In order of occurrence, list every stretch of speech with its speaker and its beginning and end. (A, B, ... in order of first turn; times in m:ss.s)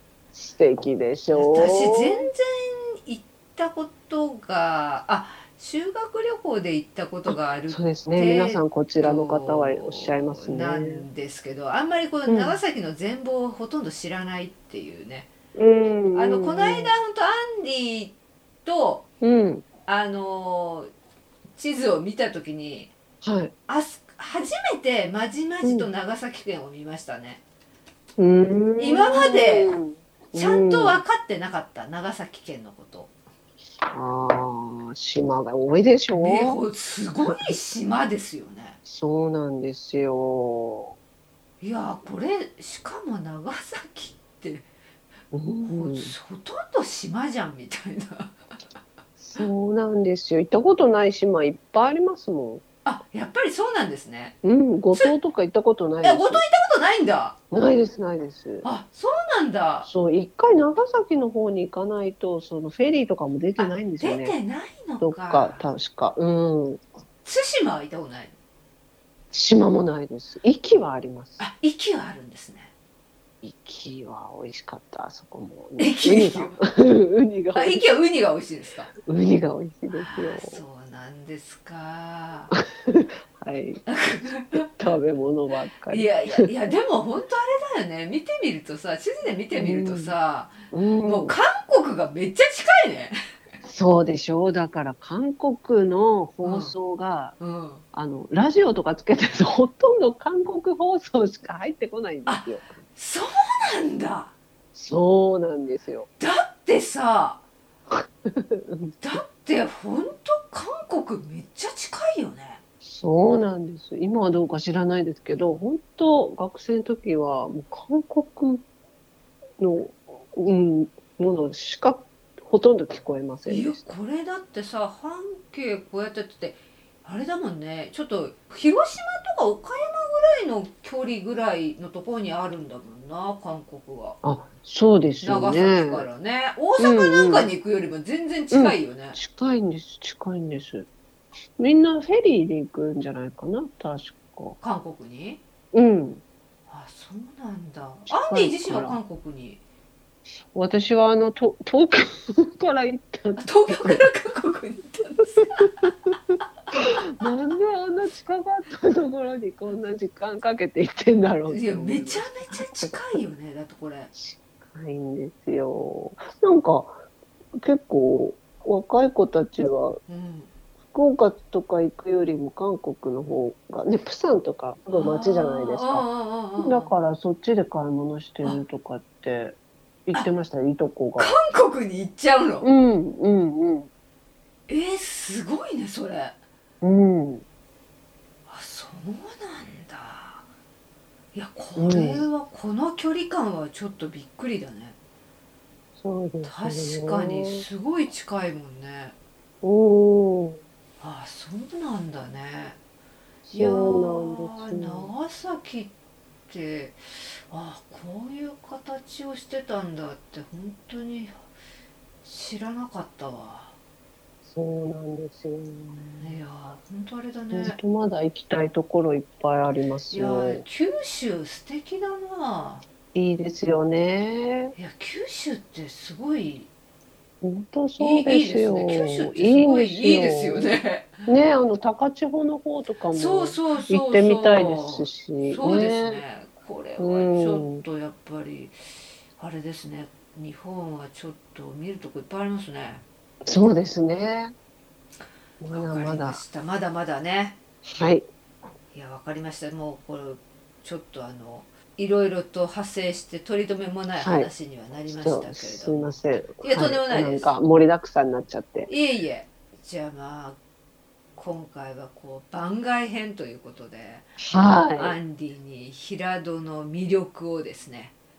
0:00.3-0:02.3 A
0:01.4-0:15.3 B
0:07.7-0:11.1 A
0:12.3-0:12.6 A
0:15.6-0:17.0 A
0:16.2-0:19.0 B
0:19.2-0:19.6 A
0:19.9-0:20.9 B
0:21.6-0:22.9 B
0:23.2-0:23.5 A
0:23.7-0:27.4 B
0:25.6-0:25.9 A
0:28.2-0:31.0 A
0:28.8-0:29.7 B
0:30.3-0:33.1 B
0:33.9-0:36.6 A
0:36.1-0:38.8 B
0:38.9-0:41.0 A
0:41.6-0:44.7 B
0:45.3-0:46.1 A
0:45.7-0:48.4 B
0:49.2-0:52.6 A
0:52.8-0:54.4 B
0:54.4-0:56.4 A
0:56.0-0:57.4 B
0:57.5-0:58.7 A
0:58.6-0:59.9 B
0:59.8-1:04.4 A
1:03.6-1:05.7 B
1:05.0-1:06.8 A
1:07.2-1:08.3 B
1:09.3-1:11.4 A
1:11.4-1:12.7 B
1:13.4-1:17.8 A
1:15.8-1:16.6 B
1:17.6-1:18.9 B
1:19.0-1:20.6 A
1:19.9-1:22.5 B
1:22.5-1:23.8 A
1:23.9-1:24.7 B
1:24.6-1:26.5 A
1:25.9-1:33.2 B
1:29.5-1:30.1 A
1:30.7-1:31.4 A
1:33.6-1:37.4 A
1:36.4-1:36.8 B
1:37.4-1:37.8 B
1:37.9-1:42.8 A
1:42.3-1:44.3 B
1:44.8-1:46.1 A
1:46.2-1:47.4 B
1:47.9-1:49.0 A
1:49.0-1:52.6 B
1:52.8-1:58.6 A
1:59.6-2:03.9 A
2:03.5-2:14.2 B
2:14.2-2:16.1 A
2:15.2-2:19.2 B
2:16.8-2:17.5 A
2:18.5-2:20.9 A
2:21.6-2:24.6 A
2:24.6-2:25.4 B
2:25.7-2:26.2 A
2:26.7-2:29.6 B
2:28.1-2:29.0 A
2:30.5-2:34.0 A
2:33.4-2:35.9 B
2:35.4-2:36.2 A
2:36.7-2:43.0 A
2:41.5-2:44.1 B
2:44.1-2:47.0 A
2:47.6-2:50.0 A
2:50.1-2:50.5 B
2:50.9-2:56.1 A
2:54.9-2:56.9 B
2:56.6-3:01.4 A
3:01.2-3:02.7 B
3:02.6-3:03.9 A
3:04.7-3:06.4 B
3:06.8-3:07.4 A
3:08.5-3:10.5 B
3:11.3-3:15.0 B
3:11.8-3:12.3 A
3:16.0-3:17.6 A
3:16.4-3:19.2 B
3:19.6-3:20.6 A
3:21.0-3:22.8 B
3:23.5-3:25.1 A
3:23.5-3:25.9 B
3:26.5-3:31.5 B
3:32.2-3:33.8 B
3:34.4-3:36.4 A
3:36.2-3:37.8 B
3:37.5-3:40.6 A
3:40.1-3:42.8 B
3:43.1-3:44.8 A
3:44.8-3:46.7 B
3:47.4-3:50.7 A
3:48.0-3:51.2 B
3:51.3-3:56.2 A
3:53.1-3:58.8 B
3:57.0-3:57.8 A
3:59.4-4:03.0 B
4:03.4-4:04.5 A
4:05.6-4:06.4 A
4:05.7-4:07.6 B
4:07.8-4:08.3 A
4:08.9-4:17.5 B
4:14.2-4:14.5 A
4:15.1-4:18.9 A
4:18.9-4:20.6 B
4:21.4-4:24.4 B
4:24.4-4:25.2 A
4:25.0-4:28.1 B